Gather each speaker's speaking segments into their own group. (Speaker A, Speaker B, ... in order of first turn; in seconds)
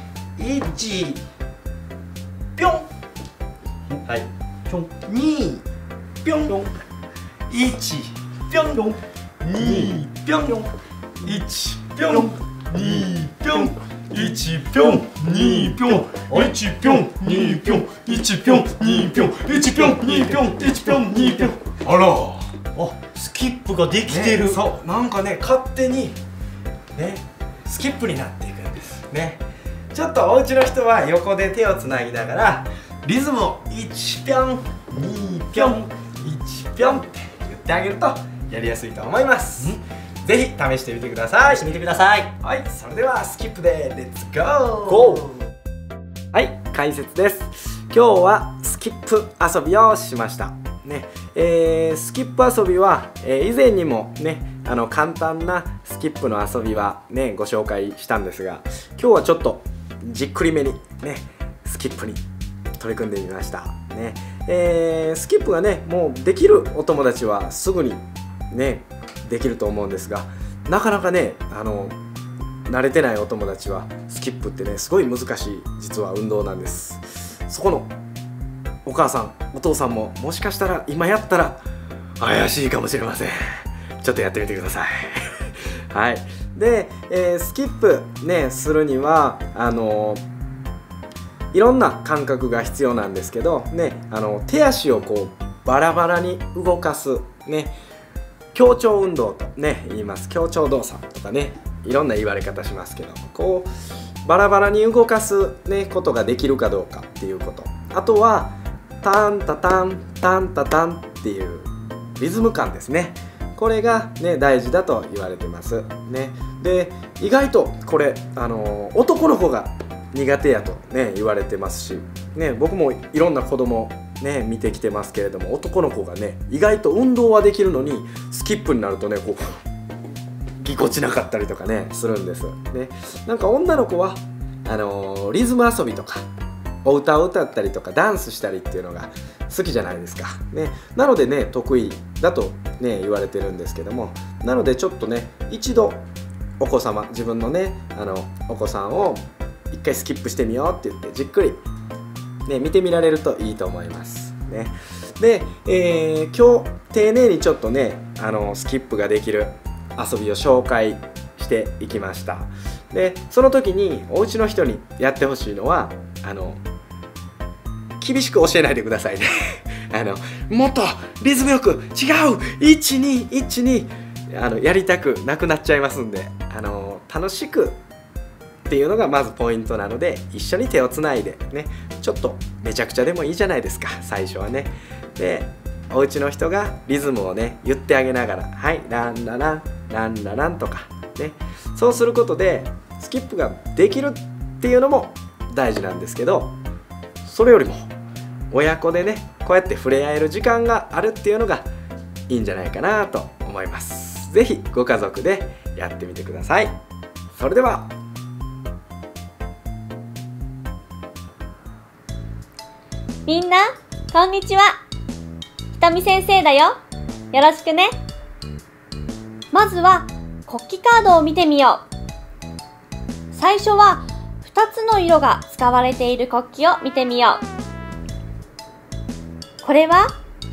Speaker A: 0.4-1.2, 2.6-2.9, 5.0-5.7, 6.2-6.6, 7.5-8.2, 9.4-10.6, 11.2-22.5, 24.1-26.2, 26.9-41.8, 42.4-45.3, 46.3-62.2, 62.8-72.0, 72.7-77.9, 78.8-81.6, 82.2-90.2, 91.5-97.8, 98.5-103.7, 104.2-129.6, 130.6-136.3, 136.8-146.0, 146.6-151.6, 152.5-166.6, 168.0-177.8, 178.7-196.6, 197.2-197.9, 198.5-201.7, 202.3-206.8, 207.3-207.9
Speaker B: 3.9-4.9, 6.5-6.7, 8.5-9.0, 9.5-10.7, 12.1-21.6, 22.8-24.6, 35.5-35.9, 41.5-42.3, 44.9-45.3
Speaker C: 213.3-214.8, 215.8-216.8, 217.3-218.0, 219.5-221.8, 223.3-227.4, 229.6-230.1